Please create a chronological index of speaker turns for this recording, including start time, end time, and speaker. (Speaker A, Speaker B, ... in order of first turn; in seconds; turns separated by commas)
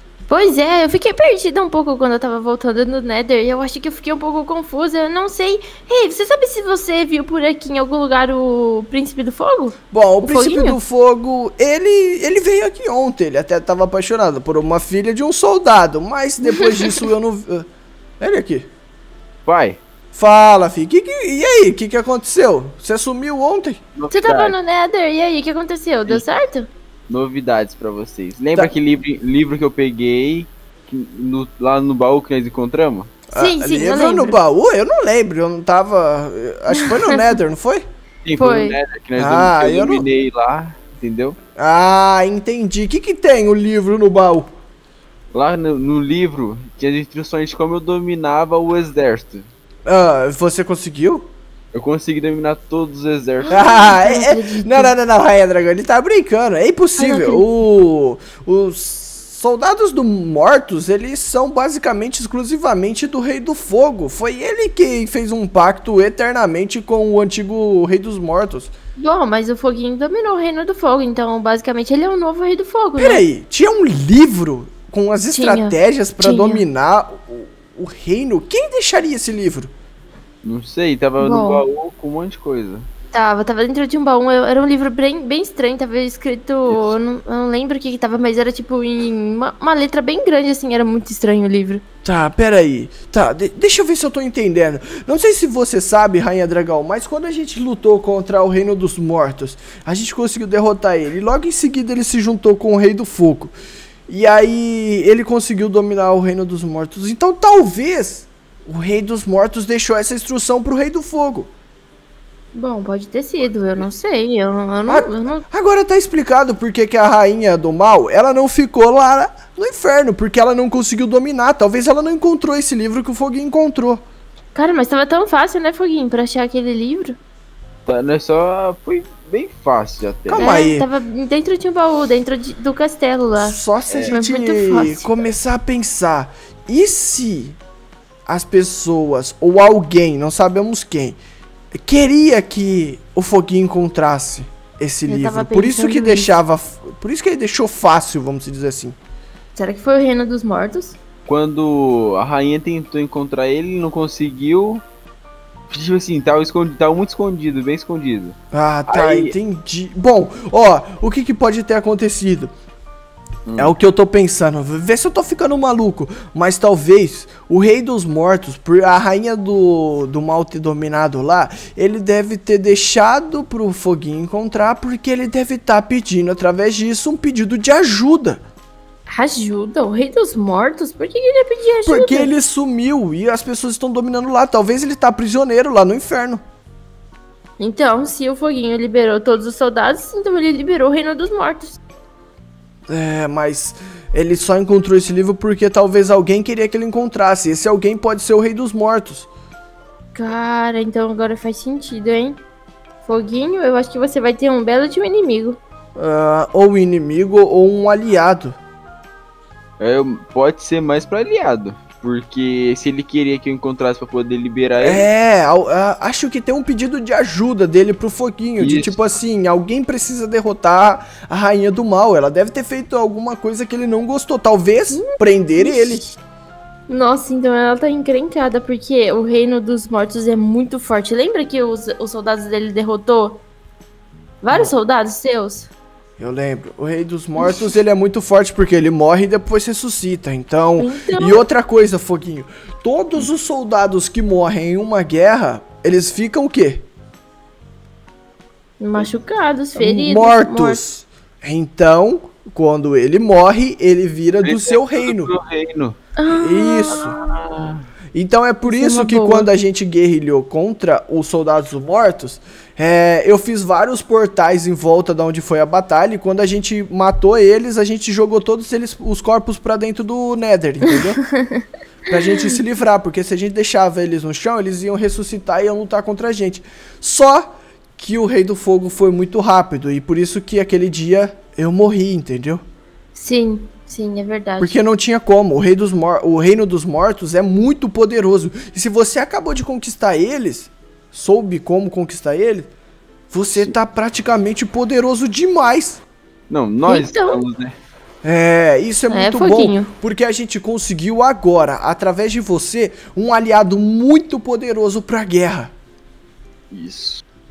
Speaker A: 0.3-10.8, Speaker B: 9.9-17.7, Speaker A: 16.5-17.0, Speaker B: 18.2-18.7, Speaker C: 19.4-19.8, Speaker B: 20.1-23.8, Speaker C: 24.0-24.6, Speaker A: 24.1-26.7, Speaker C: 27.1-33.1, Speaker B: 33.3-37.8, Speaker A: 33.3-34.4, Speaker C: 38.2-41.4, Speaker A: 38.4-38.8, Speaker B: 39.2-40.0, Speaker B: 41.6-44.5, Speaker C: 45.3-49.5, Speaker B: 49.9-51.3, Speaker C: 51.7-53.6, Speaker A: 53.4-54.9, Speaker B: 53.5-68.7, Speaker A: 57.0-57.4, Speaker A: 69.0-73.2, Speaker B: 73.0-79.7, Speaker A: 75.3-76.6, Speaker C: 80.4-82.9, Speaker A: 81.2-81.6, Speaker A: 83.1-91.8, Speaker C: 86.7-86.9, Speaker B: 92.0-103.5, Speaker B: 104.1-111.5, Speaker A: 112.5-115.4, Speaker B: 114.9-124.0, Speaker A: 124.5-127.2, Speaker C: 127.8-130.5, Speaker B: 130.3-130.9, Speaker A: 130.3-133.6, Speaker B: 133.3-137.6, Speaker C: 133.9-134.2, Speaker A: 134.1-135.1, Speaker B: 138.3-141.2, Speaker B: 141.8-148.9, Speaker A: 145.1-146.3, Speaker A: 149.6-151.0, Speaker C: 151.2-154.8, Speaker C: 155.7-158.3, Speaker B: 158.5-162.5, Speaker C: 158.9-159.3, Speaker C: 163.4-163.7, Speaker B: 163.6-178.4, Speaker A: 179.1-182.3, Speaker B: 181.8-186.4, Speaker A: 187.6-191.8, Speaker B: 192.9-199.3, Speaker A: 200.1-202.4, Speaker A: 203.0-205.6, Speaker B: 205.9-208.6, Speaker C: 209.8-215.1, Speaker B: 214.8-226.0, Speaker C: 218.6-219.0, Speaker A: 224.9-226.2, Speaker A: 226.9-233.4, Speaker A: 234.4-235.7, Speaker B: 236.2-246.8, Speaker A: 240.8-241.4, Speaker A: 248.8-250.8, Speaker B: 249.8-255.3, Speaker C: 254.4-256.0, Speaker A: 256.1-257.1, Speaker B: 256.3-257.2, Speaker C: 257.0-257.8, Speaker B: 258.1-271.2, Speaker A: 258.6-259.5, Speaker B: 272.1-282.6, Speaker A: 283.1-284.8, Speaker B: 284.6-292.7, Speaker B: 293.3-296.0, Speaker C: 296.5-297.7, Speaker A: 296.9-297.4, Speaker B: 298.2-305.7, Speaker A: 299.1-299.9, Speaker C: 306.7-307.2